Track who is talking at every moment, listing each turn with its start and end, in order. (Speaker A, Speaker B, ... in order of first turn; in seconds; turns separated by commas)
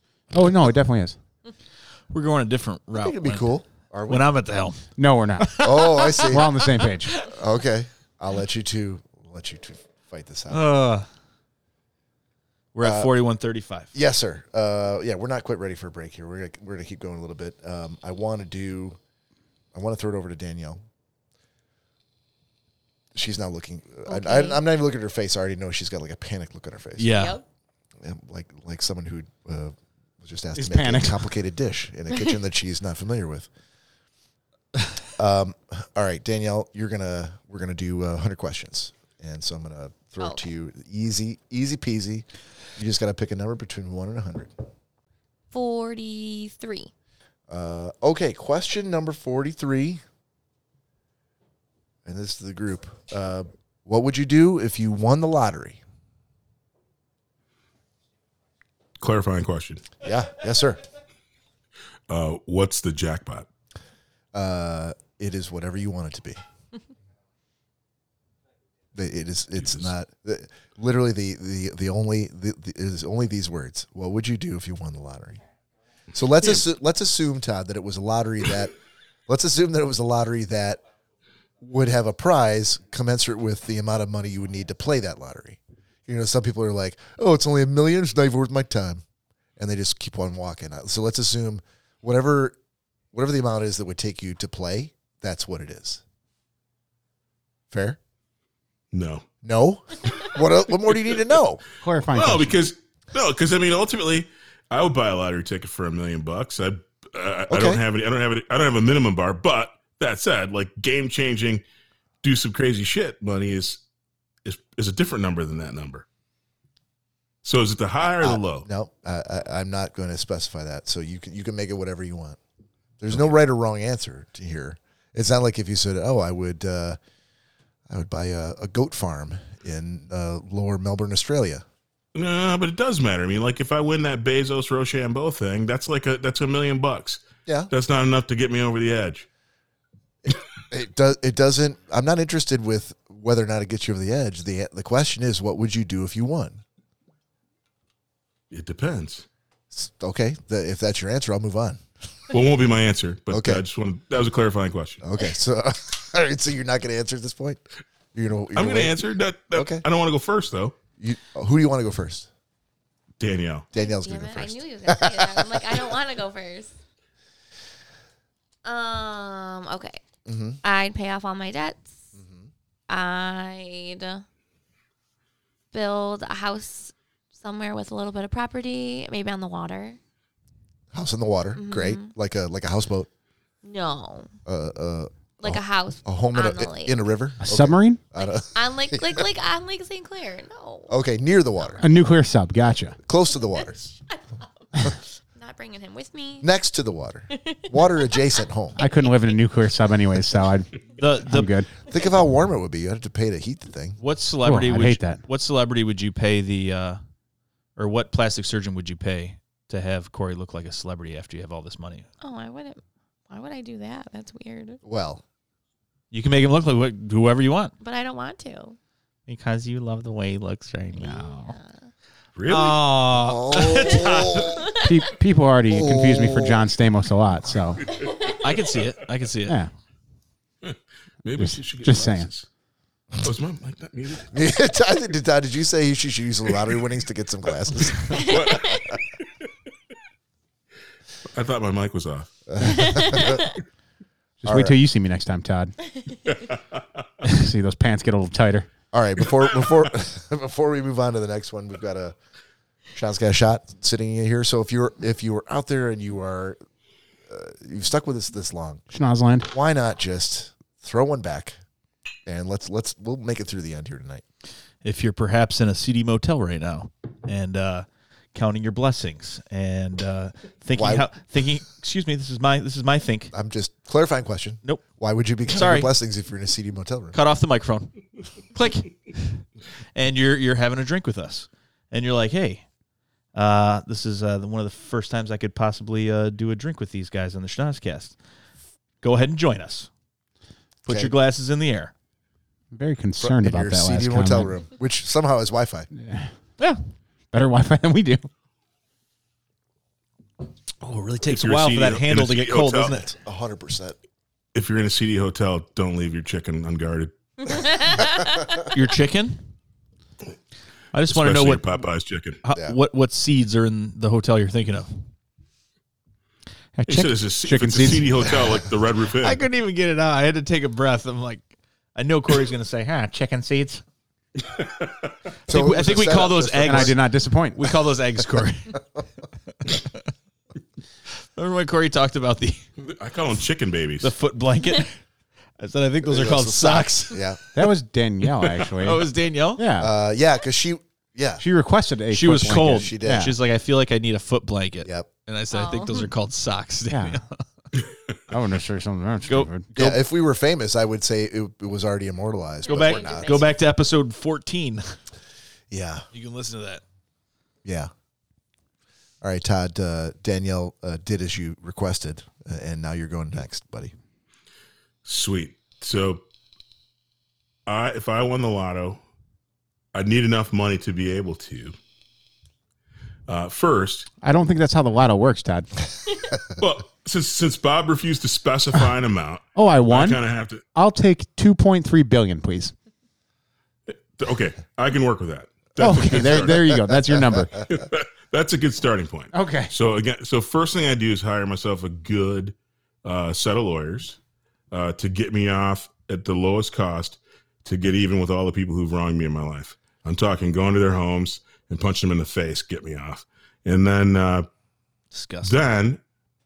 Speaker A: 0.3-1.1, Speaker B: 2.1-4.8, Speaker C: 3.0-4.3, Speaker A: 5.0-5.7, Speaker B: 5.4-6.5, Speaker C: 5.6-10.6, Speaker A: 6.2-7.1, Speaker B: 10.5-11.1, Speaker B: 12.7-13.9, Speaker C: 12.8-13.1, Speaker C: 13.9-19.0, Speaker C: 19.7-20.8, Speaker C: 23.1-27.2, Speaker D: 24.1-24.6, Speaker B: 27.0-27.4, Speaker D: 27.1-27.4, Speaker C: 28.0-33.5, Speaker A: 30.5-31.2, Speaker C: 35.2-42.2, Speaker C: 42.8-44.5, Speaker D: 45.5-46.9, Speaker C: 47.5-50.0, Speaker C: 52.0-55.8, Speaker E: 59.0-60.0, Speaker C: 60.0-60.8, Speaker E: 62.1-63.5, Speaker C: 64.3-66.4, Speaker C: 68.9-75.4, Speaker E: 69.6-69.9, Speaker C: 76.1-78.7, Speaker C: 79.3-80.8, Speaker C: 81.6-89.0, Speaker C: 89.6-92.5, Speaker C: 93.1-96.0, Speaker C: 97.7-98.0, Speaker E: 98.9-99.3, Speaker C: 99.4-101.6, Speaker A: 101.8-102.6, Speaker E: 102.1-111.6, Speaker C: 107.5-107.8, Speaker E: 112.2-113.8, Speaker E: 114.4-116.0, Speaker E: 117.4-118.7, Speaker C: 118.2-122.4, Speaker C: 123.0-127.0, Speaker C: 127.9-131.6, Speaker E: 132.1-139.2, Speaker C: 137.4-137.7, Speaker C: 140.2-146.6, Speaker E: 148.5-149.2, Speaker C: 149.7-151.8, Speaker E: 152.3-155.0, Speaker C: 153.3-153.6, Speaker C: 155.0-157.6, Speaker C: 158.1-159.0, Speaker E: 158.6-160.8, Speaker C: 159.5-159.8, Speaker C: 161.0-162.3, Speaker E: 163.2-163.7, Speaker C: 163.7-165.9, Speaker D: 163.7-166.7, Speaker D: 168.6-170.0, Speaker C: 170.2-170.6, Speaker D: 170.6-172.0, Speaker C: 172.2-172.5, Speaker D: 172.9-174.2, Speaker D: 175.7-180.0, Speaker C: 180.9-183.1, Speaker D: 181.5-182.1, Speaker D: 183.6-184.3, Speaker C: 184.4-189.3, Speaker D: 185.4-187.0, Speaker A: 187.4-188.0, Speaker D: 188.2-190.9, Speaker C: 190.9-191.8, Speaker A: 191.8-193.0, Speaker C: 193.1-193.9, Speaker D: 193.6-196.5, Speaker C: 196.4-198.8, Speaker D: 197.5-198.2, Speaker D: 198.8-199.3, Speaker A: 198.8-201.7, Speaker B: 201.0-201.5, Speaker C: 201.9-204.0, Speaker B: 204.0-207.0, Speaker A: 204.4-205.2, Speaker B: 207.8-212.1, Speaker D: 212.2-214.8, Speaker C: 214.8-215.2, Speaker B: 216.1-217.7, Speaker D: 217.8-218.8, Speaker F: 219.3-221.5, Speaker B: 221.0-221.3, Speaker D: 221.0-221.8, Speaker E: 222.4-222.8, Speaker B: 222.5-224.6, Speaker C: 223.1-224.7, Speaker D: 224.5-224.8, Speaker A: 224.8-227.8, Speaker C: 225.7-226.6, Speaker D: 227.9-228.3, Speaker B: 228.4-229.6, Speaker E: 230.6-232.4, Speaker A: 231.4-232.3, Speaker E: 233.2-234.3, Speaker C: 234.3-238.3, Speaker D: 238.1-238.9, Speaker E: 238.2-238.9, Speaker E: 241.3-242.4, Speaker C: 242.5-243.4, Speaker D: 242.6-243.6, Speaker A: 244.4-245.7, Speaker C: 244.4-244.8, Speaker E: 246.2-247.0, Speaker A: 247.2-248.7, Speaker C: 248.9-252.2, Speaker C: 252.9-256.6, Speaker C: 257.3-258.8, Speaker A: 258.9-259.5, Speaker C: 259.5-261.6, Speaker C: 262.3-264.2, Speaker B: 264.8-273.3, Speaker C: 270.7-271.1, Speaker C: 273.3-277.1, Speaker B: 275.5-275.9, Speaker B: 277.1-279.4, Speaker B: 279.9-282.6, Speaker B: 283.3-288.1, Speaker B: 289.0-289.9, Speaker B: 290.8-291.9, Speaker C: 290.9-291.1, Speaker A: 292.7-294.5, Speaker C: 293.2-295.9, Speaker A: 295.9-296.3, Speaker A: 297.3-298.3, Speaker B: 300.8-303.1, Speaker E: 301.3-302.9, Speaker C: 302.9-304.0, Speaker E: 304.5-307.1, Speaker D: 307.4-308.6, Speaker B: 308.7-309.4, Speaker B: 310.9-311.7, Speaker E: 311.1-312.4, Speaker B: 312.4-314.9, Speaker A: 316.8-318.2, Speaker E: 316.9-319.4, Speaker B: 319.2-323.1, Speaker F: 322.9-323.8, Speaker E: 324.4-325.1, Speaker C: 325.5-326.9, Speaker B: 325.5-327.0, Speaker A: 326.6-327.6, Speaker B: 327.6-328.8, Speaker B: 329.6-330.0, Speaker B: 331.4-332.6, Speaker E: 332.8-334.1, Speaker B: 334.0-335.0, Speaker B: 335.6-337.2, Speaker C: 336.0-337.4, Speaker A: 337.5-339.9, Speaker B: 338.8-339.6, Speaker C: 339.8-341.4, Speaker A: 341.4-343.3, Speaker B: 342.1-347.4, Speaker C: 342.6-343.3, Speaker C: 344.8-345.1, Speaker D: 345.5-346.1, Speaker A: 346.9-347.2, Speaker E: 347.7-348.2, Speaker A: 348.3-349.7, Speaker B: 349.3-350.0, Speaker C: 349.8-353.5, Speaker D: 352.6-353.5, Speaker B: 352.7-354.8, Speaker C: 355.7-356.0, Speaker B: 356.1-356.8, Speaker C: 357.6-357.9, Speaker C: 359.2-363.9, Speaker E: 365.0-366.2, Speaker E: 367.6-369.0, Speaker E: 369.9-371.8, Speaker E: 373.3-374.1, Speaker A: 374.2-375.7, Speaker E: 376.6-380.6, Speaker A: 379.6-380.2, Speaker A: 380.7-382.7, Speaker E: 383.9-386.8, Speaker A: 385.8-387.6, Speaker E: 387.6-394.2, Speaker A: 389.3-389.7, Speaker E: 394.7-404.5, Speaker B: 405.1-405.6, Speaker E: 405.4-406.0